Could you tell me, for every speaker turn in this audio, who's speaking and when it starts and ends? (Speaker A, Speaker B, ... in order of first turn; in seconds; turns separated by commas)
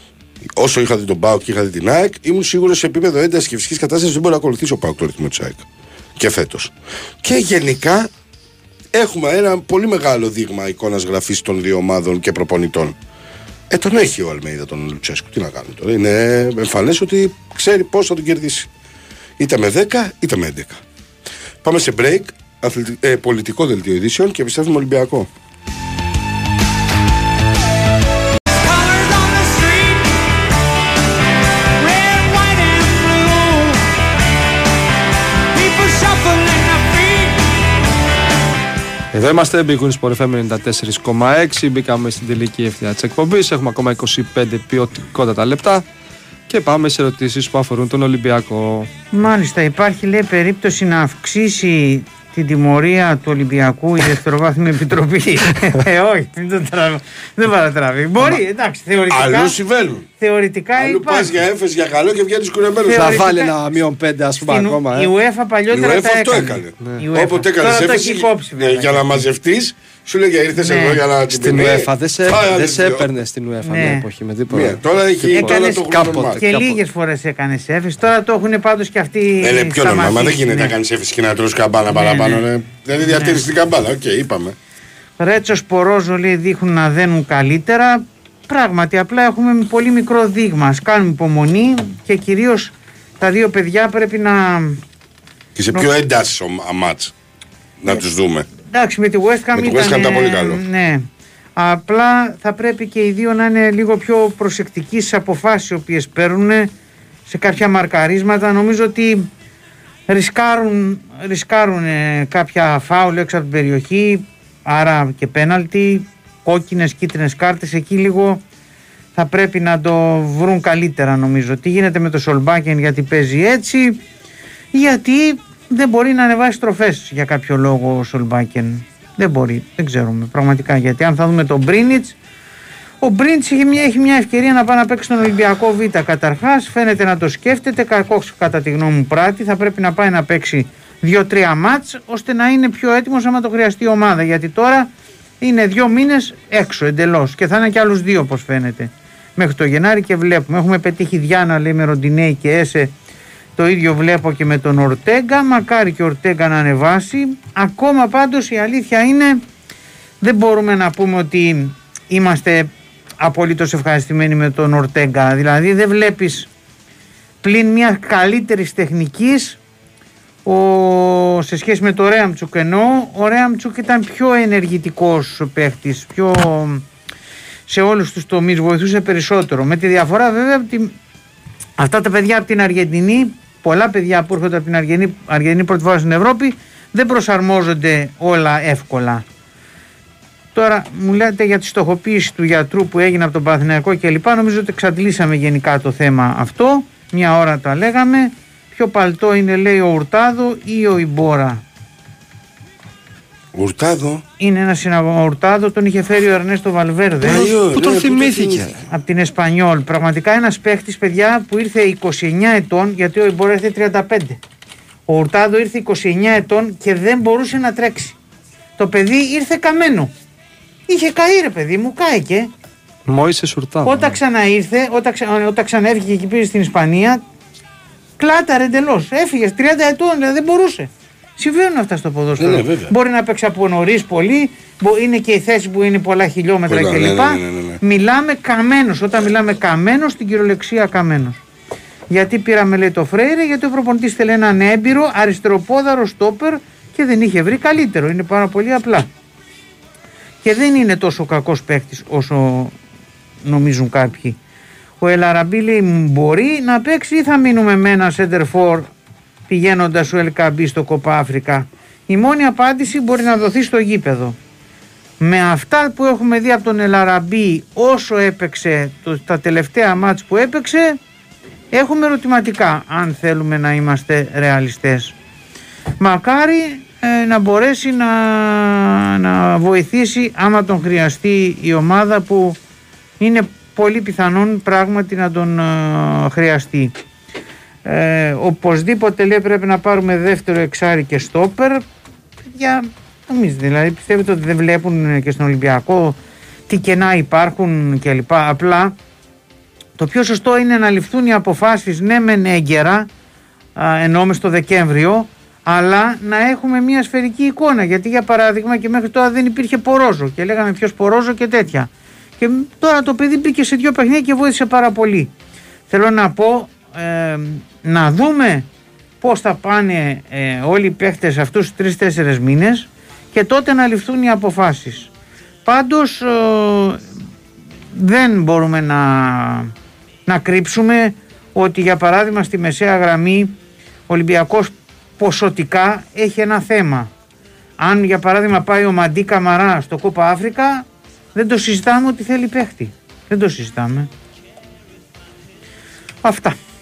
Speaker A: 0.6-5.6, Speaker A: 6.2-6.7, Speaker A: 7.2-8.1, Speaker A: 8.9-12.9, Speaker A: 13.7-18.7, Speaker A: 19.4-20.8, Speaker A: 21.6-25.3, Speaker B: 28.5-30.2, Speaker B: 31.7-33.9, Speaker B: 35.5-37.5, Speaker C: 39.1-45.9, Speaker C: 46.5-48.9, Speaker B: 49.1-59.6, Speaker A: 59.1-60.1, Speaker B: 60.2-61.4, Speaker A: 60.8-63.2, Speaker B: 62.8-63.5, Speaker C: 62.9-65.1, Speaker B: 64.4-69.3, Speaker A: 65.7-73.1, Speaker B: 70.5-71.0, Speaker C: 71.3-76.8, Speaker B: 73.6-74.0, Speaker A: 74.5-76.4, Speaker B: 75.3-80.8, Speaker A: 79.4-84.5, Speaker B: 81.9-82.4, Speaker B: 83.0-83.4, Speaker B: 85.2-94.8, Speaker A: 95.5-97.1, Speaker A: 97.8-98.5, Speaker B: 98.7-106.7, Speaker A: 99.5-100.6, Speaker B: 107.3-109.3, Speaker B: 110.1-118.4, Speaker B: 119.1-124.0, Speaker B: 124.7-132.2, Speaker B: 133.0-144.9, Speaker B: 145.4-152.9, Speaker B: 153.6-159.4, Speaker B: 160.2-166.5, Speaker B: 167.4-169.6, Speaker B: 170.4-176.8, Speaker B: 177.7-180.9, Speaker B: 181.8-189.2, Speaker B: 190.5-201.6, Speaker A: 203.5-204.2, Speaker B: 204.4-207.4, Speaker A: 207.2-208.8, Speaker C: 207.2-208.8, Speaker B: 208.9-214.4, Speaker B: 215.1-218.2, Speaker B: 218.8-220.1, Speaker B: 220.9-222.5, Speaker C: 223.1-224.2, Speaker B: 223.8-227.2, Speaker B: 228.2-241.4, Speaker A: 232.4-232.9, Speaker A: 236.7-237.8, Speaker B: 242.1-249.1, Speaker B: 250.4-252.7, Speaker B: 253.4-254.4, Speaker B: 255.0-258.9, Speaker B: 259.5-264.4, Speaker B: 265.2-271.0, Speaker B: 271.7-275.1, Speaker B: 276.0-282.6, Speaker B: 283.2-286.9, Speaker B: 287.8-291.8, Speaker B: 292.4-296.2, Speaker B: 296.7-298.9, Speaker B: 300.0-303.1, Speaker B: 303.8-315.3, Speaker B: 315.9-318.7, Speaker B: 319.2-325.1, Speaker B: 325.6-327.0, Speaker B: 327.9-329.7, Speaker B: 330.3-333.5, Speaker B: 334.1-337.1, Speaker B: 337.8-344.1, Speaker B: 346.2-346.6